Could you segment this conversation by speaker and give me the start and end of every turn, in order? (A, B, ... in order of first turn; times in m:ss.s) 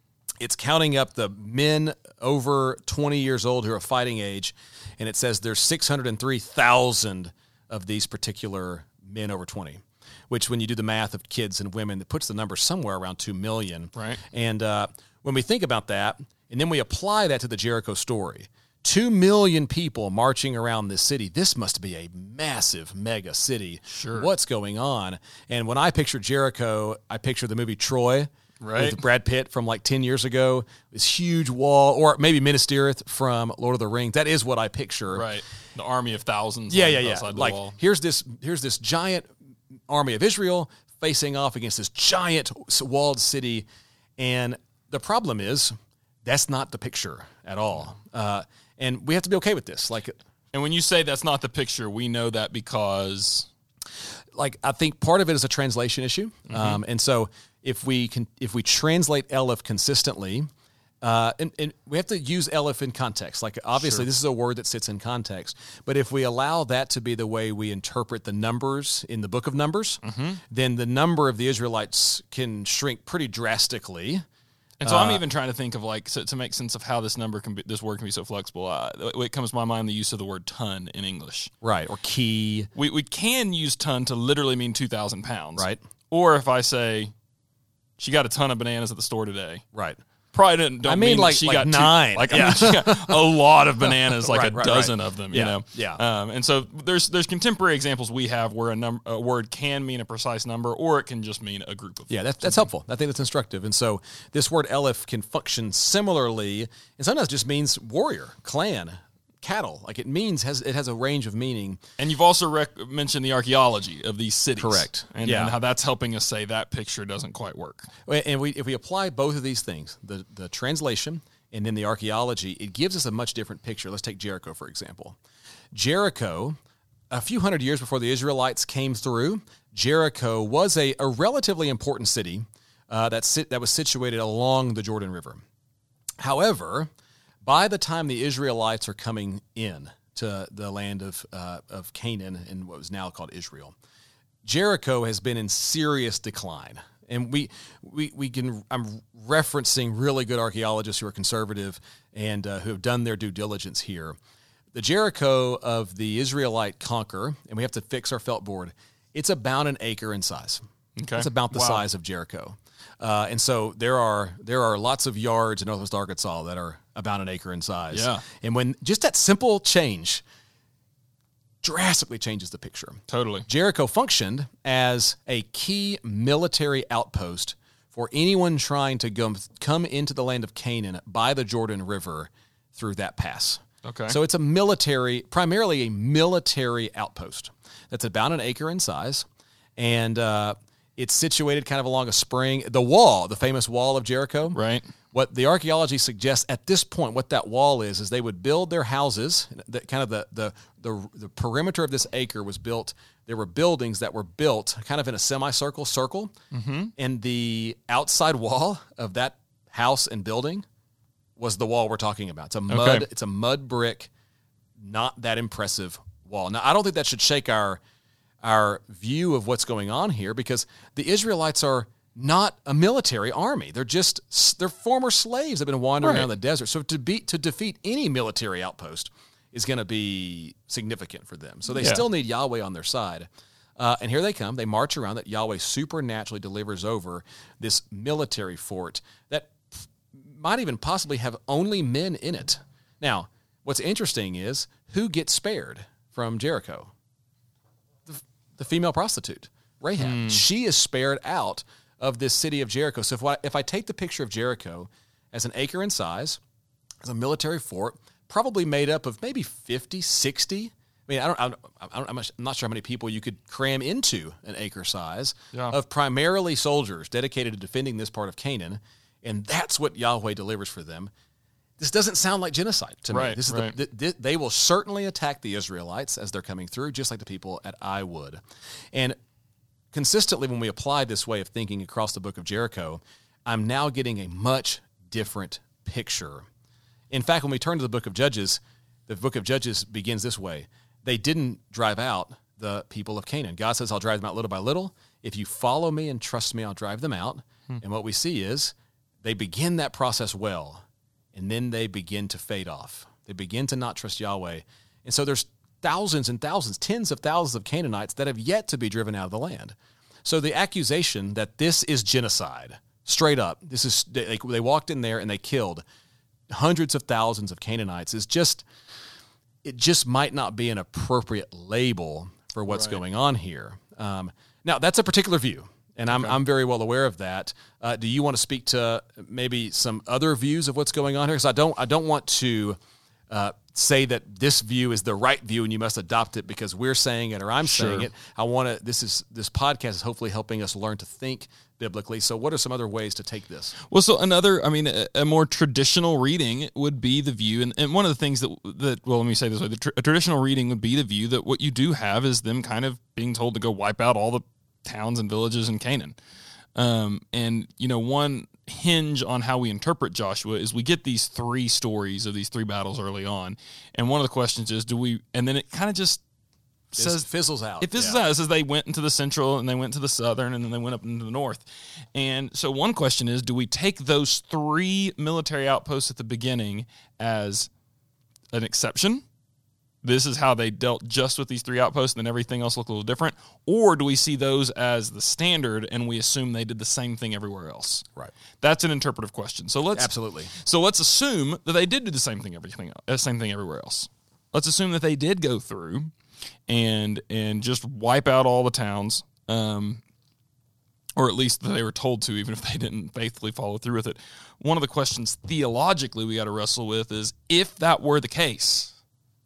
0:00.4-0:35.3 A
0:14.0-0:14.2 B
0:23.9-0:24.3 B
0:28.6-0:29.0 B
0:35.1-0:37.8 B
0:36.7-0:39.3 A
0:39.9-0:43.7 A
0:44.2-0:45.7 A
0:46.2-0:50.2 A
0:50.5-0:53.5 B
0:54.4-1:00.5 A
0:56.5-0:56.8 B
1:01.0-1:14.2 A
1:10.0-1:10.4 B
1:14.8-1:21.5 B
1:14.8-1:15.2 A
1:21.6-1:22.7 A
1:22.8-1:27.1 B
1:28.0-1:29.6 B
1:30.3-1:42.7 B
1:30.8-1:33.2 A
1:33.8-1:36.0 A
1:42.1-1:51.8 A
1:52.0-1:57.9 B
1:54.6-1:55.5 A
1:58.1-2:05.2 A
2:05.7-2:06.6 A
2:07.1-2:15.4 A
2:16.2-2:16.9 A
2:17.4-2:23.8 A
2:24.4-2:34.2 A
2:34.7-2:40.6 A
2:41.0-2:41.8 B
2:41.2-2:50.2 A
2:47.9-2:48.2 B
2:51.6-3:14.6 A
2:53.1-2:53.5 B
3:03.8-3:04.2 B
3:14.5-3:14.9 B
3:15.1-3:26.3 A
3:26.5-3:26.9 B
3:27.0-3:30.7 A
3:31.4-3:34.1 A
3:32.7-3:33.1 B
3:34.8-3:37.8 A
3:38.4-4:06.9 A
3:46.0-3:46.3 B
3:51.8-3:52.0 B
4:08.1-4:16.4 A
4:10.0-4:10.4 B
4:17.0-4:31.1 A
4:31.8-4:38.4 A
4:33.1-4:33.8 B
4:39.9-4:46.5 A
4:47.1-5:15.8 A
5:16.5-5:18.7 A
5:19.6-5:32.8 A
5:22.7-5:23.0 B
5:26.1-5:26.4 B
5:33.3-5:43.8 A
5:37.6-5:38.1 B
5:43.9-5:56.2 B
5:56.8-6:06.2 B
6:06.9-6:07.3 B
6:07.0-6:08.2 A
6:07.8-6:17.7 B
6:18.5-6:19.2 B
6:20.0-6:28.0 B
6:28.6-6:36.1 B
6:30.0-6:30.5 A
6:36.7-6:40.0 B
6:41.2-6:49.0 B